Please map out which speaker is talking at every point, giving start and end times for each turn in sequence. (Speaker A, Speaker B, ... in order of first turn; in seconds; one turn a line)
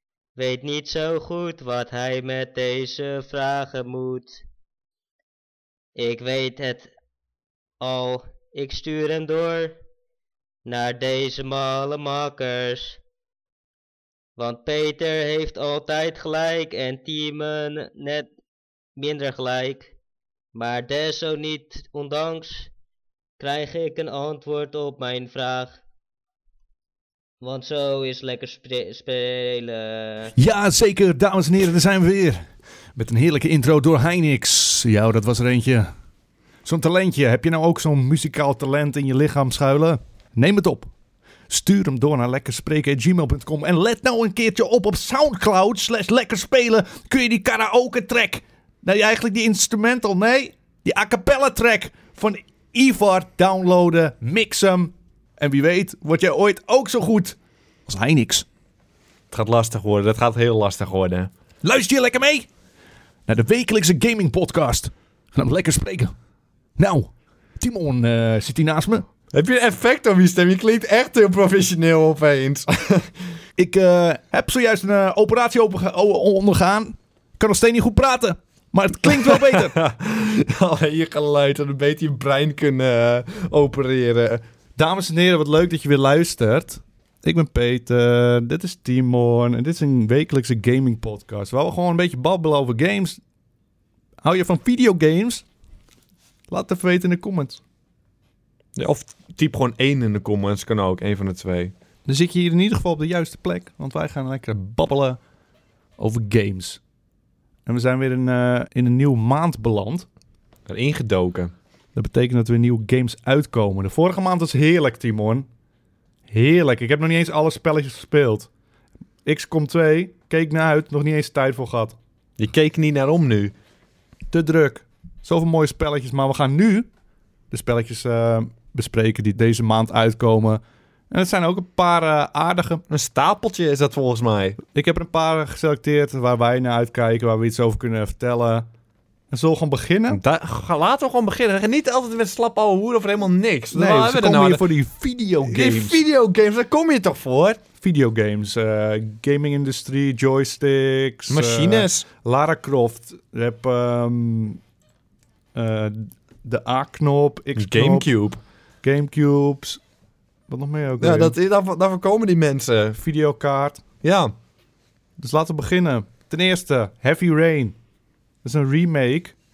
Speaker A: 0.3-4.4
Speaker A: 6.0-6.9
Speaker A: 7.8-9.8
Speaker A: 10.7-13.0
Speaker A: 14.4-18.3
Speaker A: 19.0-19.9
Speaker A: 20.5-22.7
Speaker A: 23.4-25.8
Speaker A: 27.4-30.3
Speaker B: 30.4-35.9
Speaker B: 36.6-40.9
Speaker B: 41.5-58.5
Speaker C: 59.3-61.3
Speaker B: 61.6-62.5
Speaker B: 63.3-66.1
Speaker B: 66.8-69.0
Speaker C: 69.3-73.1
Speaker B: 73.6-79.8
Speaker C: 79.0-84.4
Speaker B: 84.8-93.2
Speaker B: 94.2-95.5
Speaker B: 96.5-97.6
Speaker C: 98.8-101.7
Speaker B: 102.0-105.2
Speaker B: 106.0-106.8
Speaker B: 107.7-110.1
Speaker C: 110.7-111.5
Speaker B: 111.9-115.5
Speaker B: 116.3-118.5
Speaker B: 119.2-122.0
Speaker C: 122.4-123.5
Speaker B: 124.3-126.9
Speaker B: 127.5-132.8
Speaker C: 132.9-134.6
Speaker B: 134.7-138.7
Speaker B: 139.3-140.2
Speaker C: 140.1-144.6
Speaker B: 143.7-146.0
Speaker C: 145.4-147.6
Speaker B: 147.8-154.6
Speaker C: 151.3-152.1
Speaker B: 155.5-158.1
Speaker C: 157.6-158.4
Speaker B: 158.8-159.8
Speaker B: 160.5-161.3
Speaker C: 161.0-163.0
Speaker B: 162.9-163.8
Speaker C: 164.0-164.3
Speaker B: 165.2-167.8
Speaker B: 168.4-169.3